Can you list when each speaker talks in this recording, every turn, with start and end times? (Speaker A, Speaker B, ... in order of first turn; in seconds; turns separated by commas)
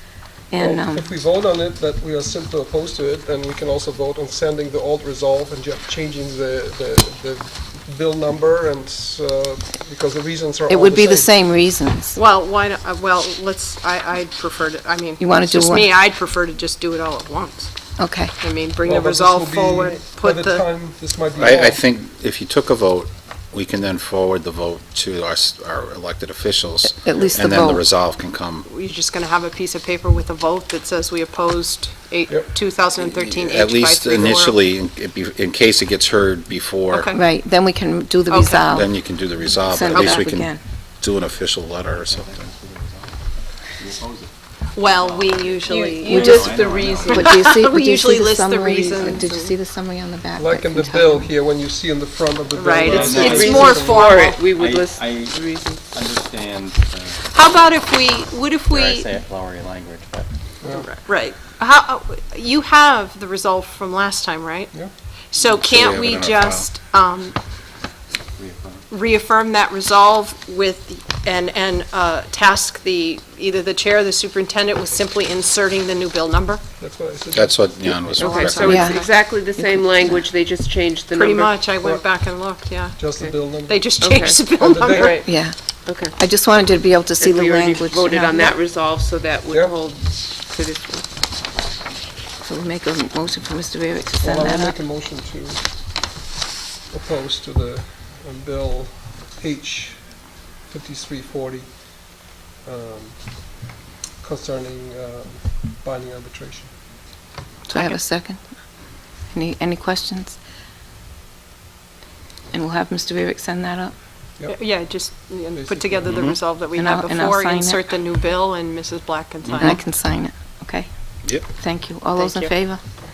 Speaker A: 0.5-1.1, Speaker B: 0.6-11.4, Speaker A: 10.7-12.2, Speaker C: 12.1-17.7, Speaker A: 15.2-15.9, Speaker A: 18.0-18.3, Speaker C: 18.4-20.7, Speaker B: 18.8-21.8, Speaker D: 21.4-28.7, Speaker A: 27.0-27.8, Speaker C: 28.6-34.5, Speaker D: 33.0-37.1, Speaker C: 36.9-37.2, Speaker A: 37.1-38.9, Speaker C: 38.3-38.9, Speaker D: 38.7-42.5, Speaker A: 39.7-40.6, Speaker C: 39.9-40.2, Speaker E: 42.0-43.2, Speaker E: 43.8-44.3, Speaker C: 44.7-46.5, Speaker E: 44.8-47.2, Speaker F: 45.7-47.5, Speaker A: 46.1-46.4, Speaker A: 47.1-51.3, Speaker C: 47.1-49.6, Speaker B: 50.4-54.1, Speaker C: 52.5-54.4, Speaker E: 52.8-55.3, Speaker D: 52.9-53.6, Speaker F: 53.2-55.9, Speaker E: 55.9-57.2, Speaker C: 57.3-59.1, Speaker E: 58.7-60.3, Speaker B: 60.6-60.9, Speaker C: 60.7-67.4, Speaker D: 65.4-66.7, Speaker E: 68.4-68.8, Speaker C: 68.9-76.6, Speaker B: 76.8-77.9, Speaker D: 77.3-78.8, Speaker C: 78.1-79.1, Speaker F: 78.2-81.7, Speaker A: 78.6-80.2, Speaker C: 81.1-83.1, Speaker B: 81.7-82.0, Speaker B: 82.9-85.2, Speaker F: 83.2-85.3, Speaker C: 83.6-85.2, Speaker A: 85.2-85.5, Speaker F: 85.8-86.2, Speaker A: 86.1-88.6, Speaker F: 87.2-91.1, Speaker B: 89.5-89.8, Speaker A: 92.4-94.7, Speaker B: 94.2-96.0, Speaker B: 96.9-100.2, Speaker B: 100.7-102.0, Speaker B: 102.6-103.6, Speaker B: 104.2-106.7, Speaker A: 107.7-108.4, Speaker A: 109.3-110.4, Speaker A: 112.5-113.9, Speaker B: 114.4-114.7, Speaker C: 114.5-119.8, Speaker B: 115.5-116.3, Speaker D: 116.1-116.4, Speaker A: 116.7-117.8, Speaker D: 119.4-119.7, Speaker A: 119.6-120.9, Speaker A: 121.5-122.8